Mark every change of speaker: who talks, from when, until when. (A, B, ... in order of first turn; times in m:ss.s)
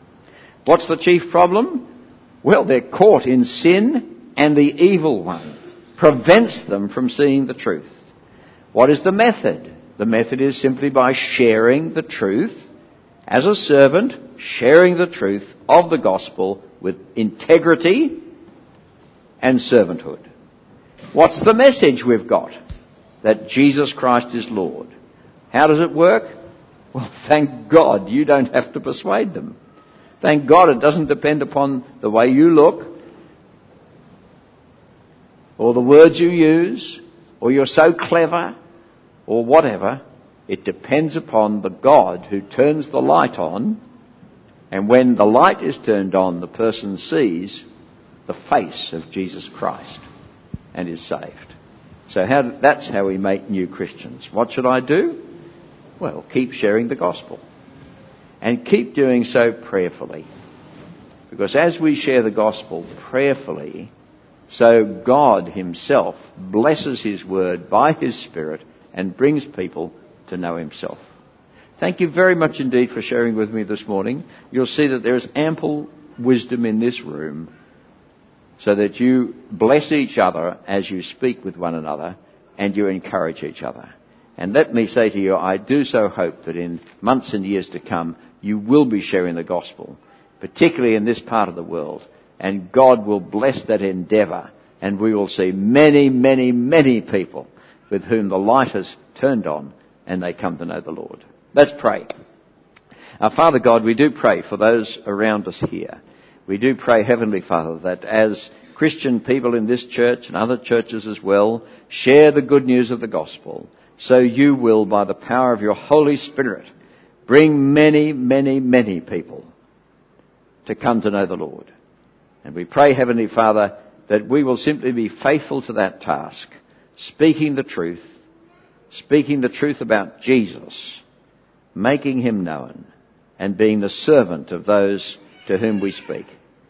0:00.6-0:01.9 A
0:02.4-0:07.9 A
0:08.7-0:12.7 A
0:13.3-0:18.2 A
0:19.4-0:20.2 A
0:21.1-0:22.5 A
0:23.2-0:24.9 A
0:25.5-0:26.3 A
0:26.9-0:29.6 A
0:30.2-0:33.0 A
0:35.6-0:38.5 A
0:39.3-0:43.8 A
0:44.7-0:47.6 A
0:48.3-0:50.0 A
0:50.7-0:51.5 A
0:52.1-0:55.2 A
0:56.0-0:57.4 A
0:58.4-1:00.3 A
1:01.3-1:03.9 A
1:04.5-1:11.0 A
1:11.8-1:17.5 A
1:18.6-1:42.1 A
1:43.2-1:56.7 A
1:57.3-1:59.5 A
2:00.6-2:01.7 A
2:02.4-2:08.2 A
2:08.9-2:11.0 A
2:11.7-2:12.9 A
2:13.4-2:16.3 A